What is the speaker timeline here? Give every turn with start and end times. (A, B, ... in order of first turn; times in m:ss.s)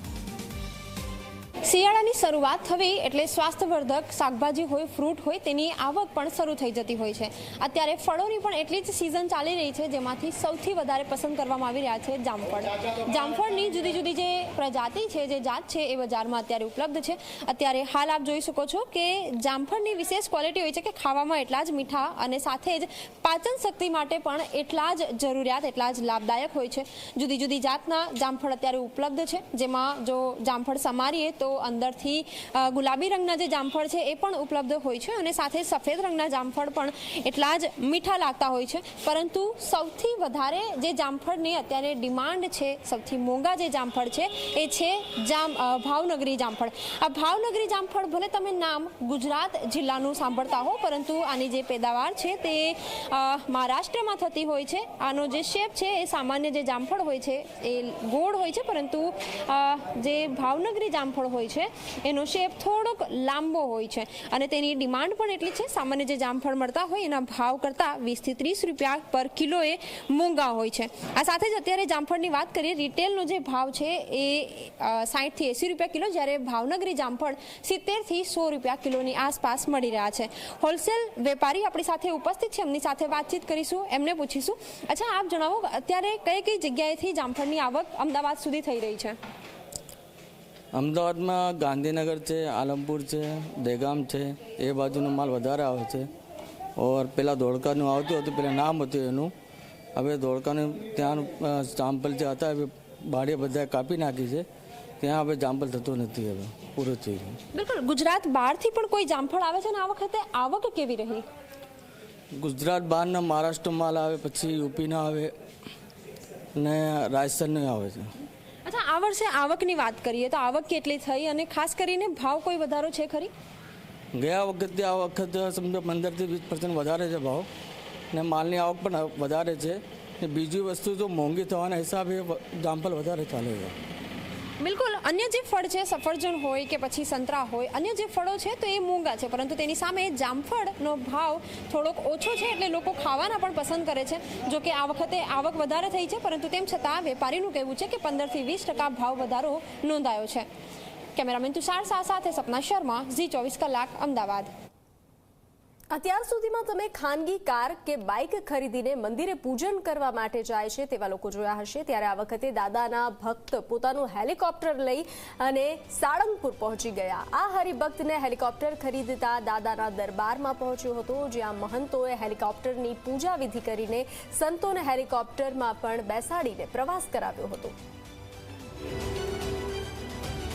0:01.6-1:29.2 A
1:30.7-1:36.1 B
1:36.8-1:39.3 B
1:40.0-1:44.4 B
1:45.0-1:47.4 B
1:47.5-1:51.2 A
1:52.4-1:55.3 B
1:56.6-1:58.1 B
1:58.6-2:03.3 A
2:04.1-2:07.5 B
2:08.1-2:13.8 B
2:14.6-2:30.5 A
2:31.1-2:34.5 A
2:35.9-2:57.7 C